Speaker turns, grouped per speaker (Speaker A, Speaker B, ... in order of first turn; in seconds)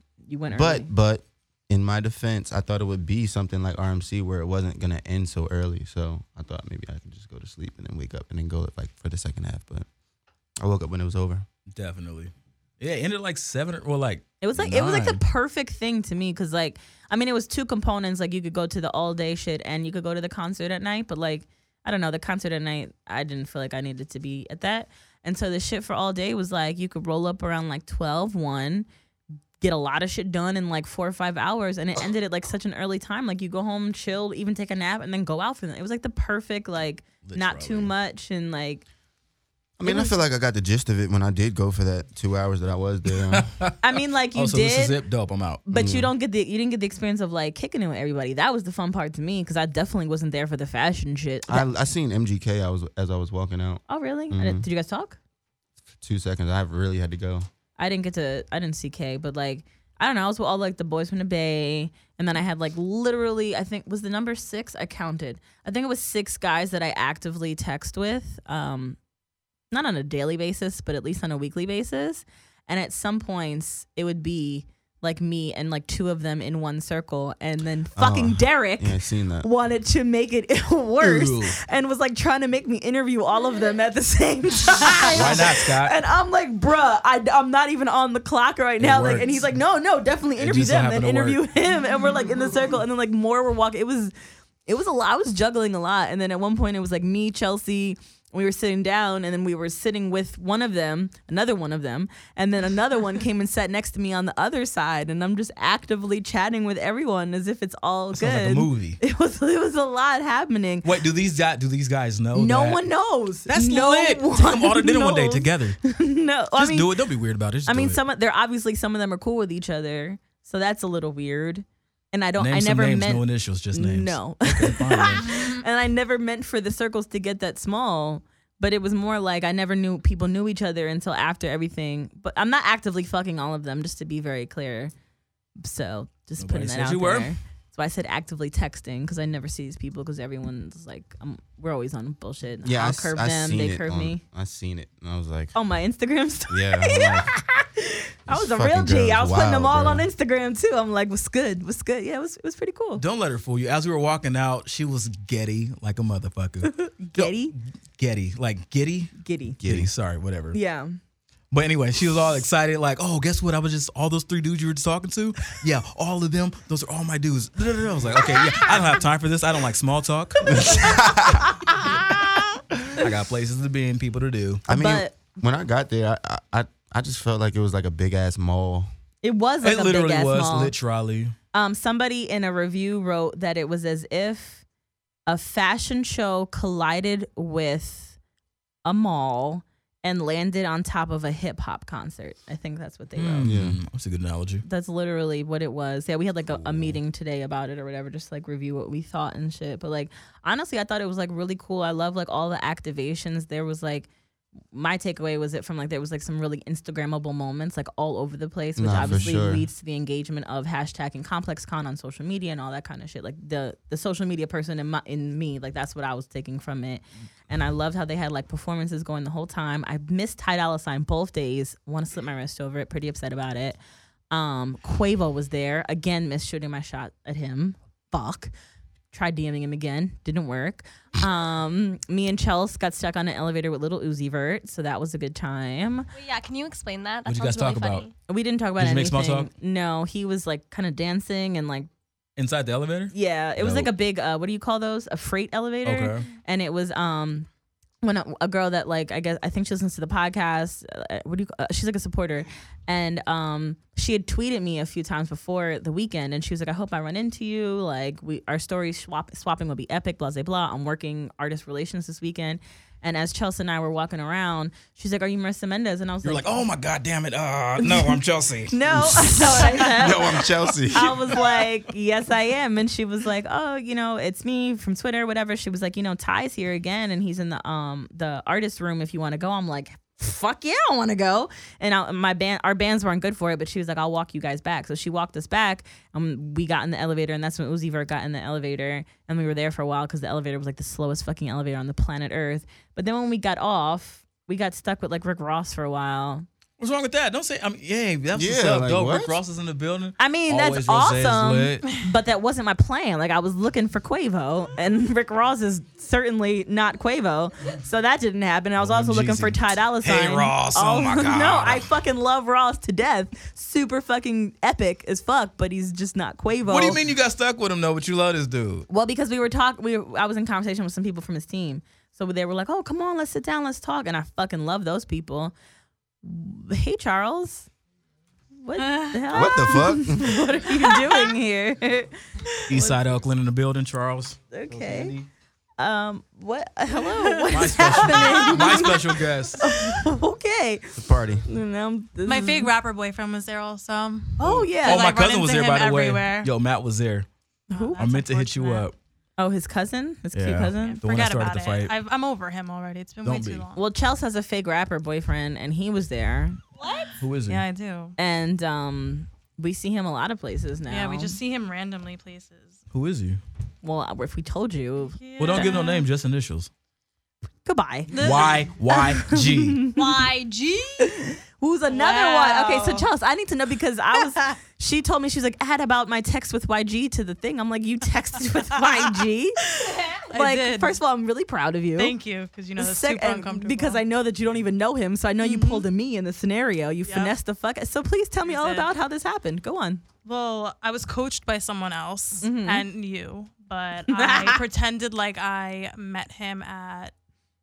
Speaker A: 0.3-0.9, 14.4-28.9, 29.6-38.8, 39.8-40.1, 43.8-45.0, 45.6-51.7, 53.9-55.2, 57.8-69.0, 69.7-94.1, 94.7-110.9, 112.3-117.0, 117.6-134.9, 135.6-144.2, 145.5-153.0, 156.6-157.6, 159.2-159.6, 160.5-160.9, 170.5-170.9, 174.7-175.2, 179.2-180.7, 181.5-184.6, 185.3-188.2, 188.8-193.5, 194.6-204.1, 204.7-223.8, 224.3-228.5, 229.1-236.1, 238.3-241.9, 243.1-247.5, 248.0-266.6, 267.8-268.2, 268.7-296.4, 300.2-317.0, 318.9-325.5, 326.2-327.7, 328.6-332.1, 332.7-333.0, 334.5-335.1, 335.8-342.7, 344.4-345.1, 347.7-348.0, 349.4-351.0, 353.7-356.6, 358.2-361.4, 363.8-366.0, 367.6-368.3, 368.9-370.0, 371.0-379.6, 380.1-382.1, 382.8-390.0, 392.4-392.9, 394.1-394.6
Speaker B: 0.5-9.9, 10.6-11.4, 39.8-43.5, 45.7-46.1, 51.5-54.6, 56.0-57.5, 78.0-79.5, 142.6-145.5, 146.5-147.3, 148.3-150.1, 159.6-159.9, 170.5-171.5, 174.7-178.9, 193.4-193.8, 196.5-197.0, 208.8-209.7, 269.7-271.3, 298.3-299.4, 329.3-330.4, 340.9-341.4
Speaker C: 11.7-15.2, 37.2-37.9, 43.3-43.8, 44.3-45.6, 81.0-81.6, 85.0-86.0, 88.8-89.4, 90.4-91.4, 108.1-109.0, 110.8-112.8, 113.5-115.8, 116.5-118.0, 122.4-125.3, 136.4-137.3, 152.9-160.6, 161.5-170.6, 173.0-174.6, 179.6-181.3, 193.2-194.6, 237.2-238.1, 238.8-239.5, 242.4-243.9, 245.8-246.3, 266.2-269.6, 296.8-301.9, 308.8-311.9, 316.7-318.9, 332.7-334.4, 337.5-339.6, 344.6-347.3, 348.0-348.9, 350.3-351.9, 353.2-353.6, 357.2-357.6, 362.9-363.4, 365.4-366.7, 368.2-369.9
Speaker D: 125.3-125.6, 328.8-329.9, 330.6-331.3, 337.2-339.0, 342.2-346.5, 347.7-348.9, 350.8-353.8, 357.5-358.1, 360.9-362.8, 365.2-366.0, 368.1-368.7, 370.1-370.5, 371.9-373.1, 379.7-381.0, 381.9-384.0, 385.4-385.9, 387.0-387.3, 388.4-388.9, 390.2-397.1
Speaker E: 236.1-238.1, 356.8-357.1, 370.0-370.8